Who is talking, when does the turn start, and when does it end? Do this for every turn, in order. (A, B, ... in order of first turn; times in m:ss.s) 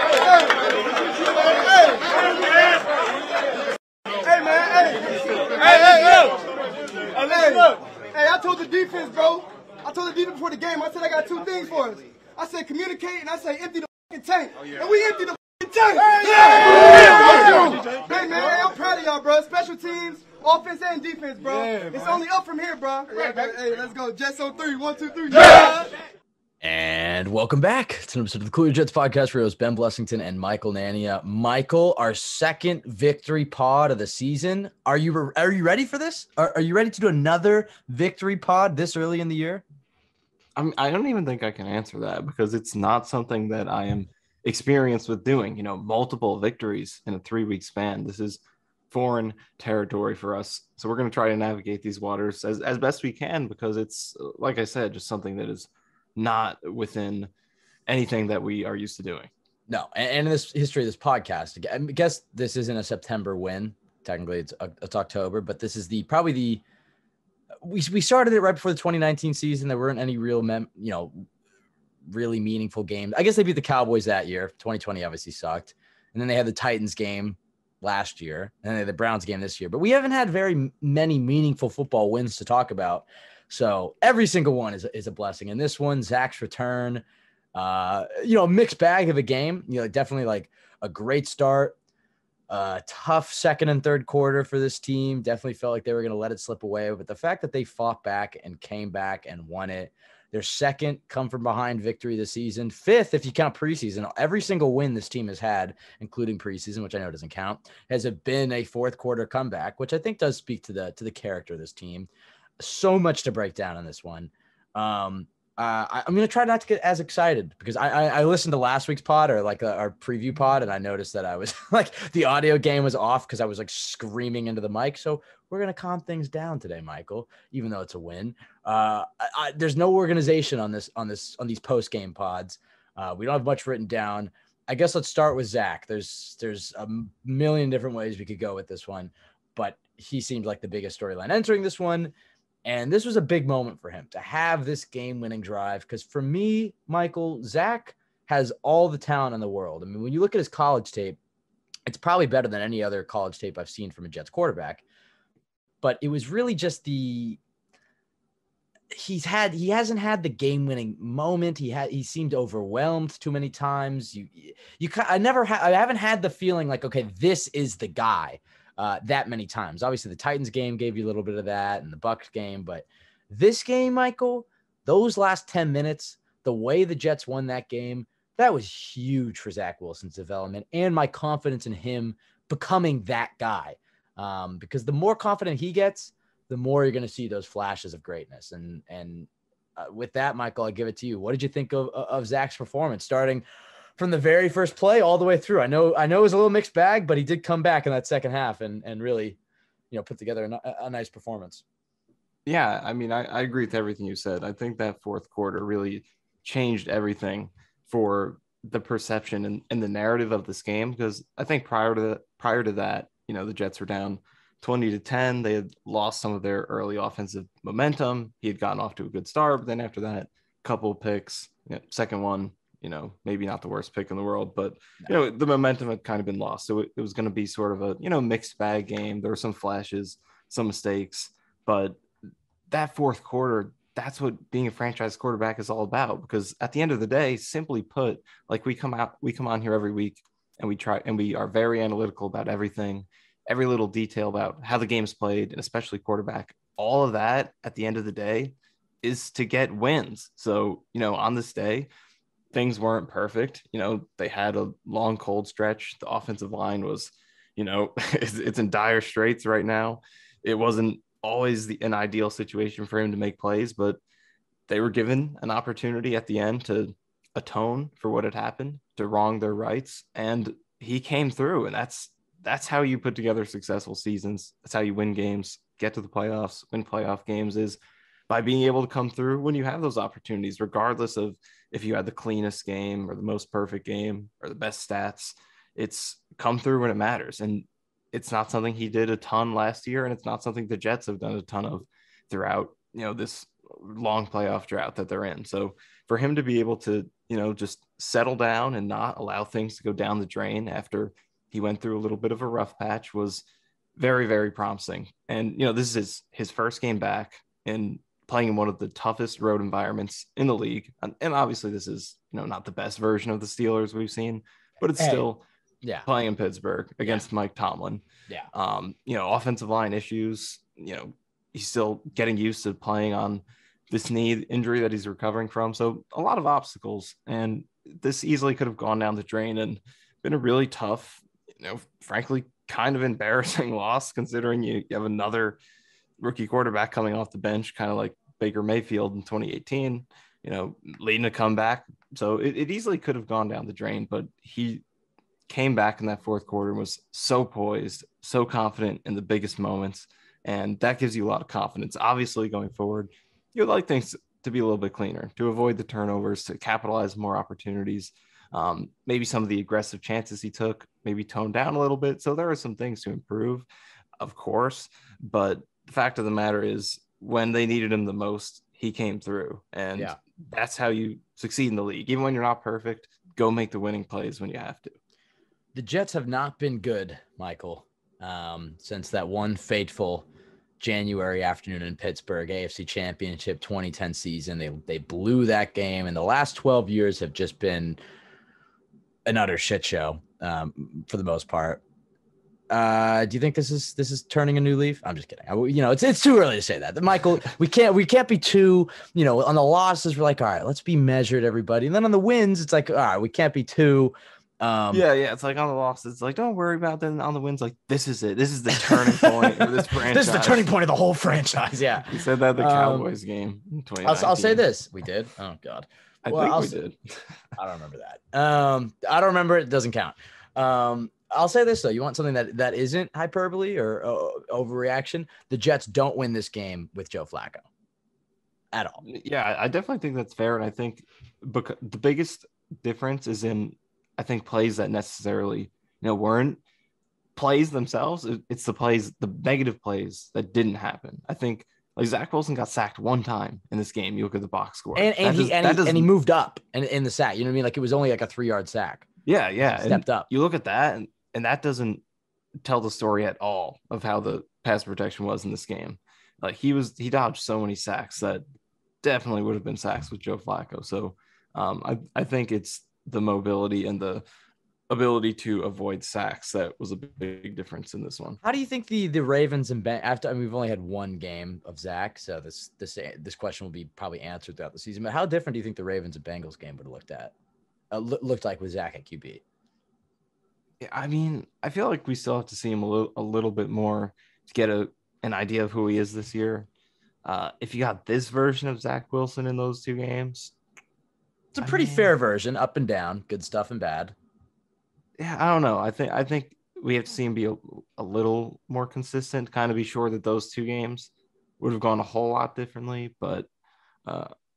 0:00.2-0:02.8 A
0:04.2-0:06.5 A
0:07.0-0:26.0 A
0:26.6-0:39.6 B
0:40.6-0:48.4 C
0:48.9-0:57.3 C
0:57.9-0:59.3 C
0:59.7-1:06.6 B
1:07.6-1:11.3 B
1:12.1-1:27.0 B
1:27.5-1:31.7 B
1:32.5-1:52.1 B
1:52.6-2:22.1 B
2:22.6-2:31.2 B
2:31.9-2:34.8 B
2:35.8-2:37.4 B
2:38.9-3:13.4 B
3:14.0-3:19.4 B
3:19.9-3:21.6 B
3:22.4-3:52.0 C
3:52.7-4:11.9 C
4:12.5-4:24.0 C
4:24.7-4:37.8 C
4:38.3-5:03.4 C
5:04.0-5:15.4 C
5:15.0-5:15.2 B
5:16.0-5:35.6 C
5:36.2-5:44.8 C
5:45.5-6:03.7 C
6:04.2-6:15.0 C
6:15.7-6:20.2 B
6:20.8-6:28.0 B
6:29.2-6:31.8 B
6:32.7-6:45.0 B
6:44.9-6:50.7 C
6:48.7-6:53.1 B
6:52.1-6:54.6 C
6:54.0-6:56.8 B
6:56.2-6:57.4 C
6:57.6-7:07.6 B
7:08.7-7:09.0 B
7:09.0-7:16.6 C
7:17.4-7:26.1 C
7:24.9-7:29.1 B
7:29.2-7:32.0 C
7:29.6-7:30.3 B
7:32.6-7:38.4 C
7:39.0-7:44.2 C
7:44.9-7:48.4 C
7:48.4-7:57.3 B
7:57.9-7:59.4 B
8:00.8-8:06.7 C
8:07.2-8:10.5 C
8:11.5-8:14.1 B
8:11.6-8:12.1 C
8:15.2-8:23.5 C
8:24.0-8:24.3 C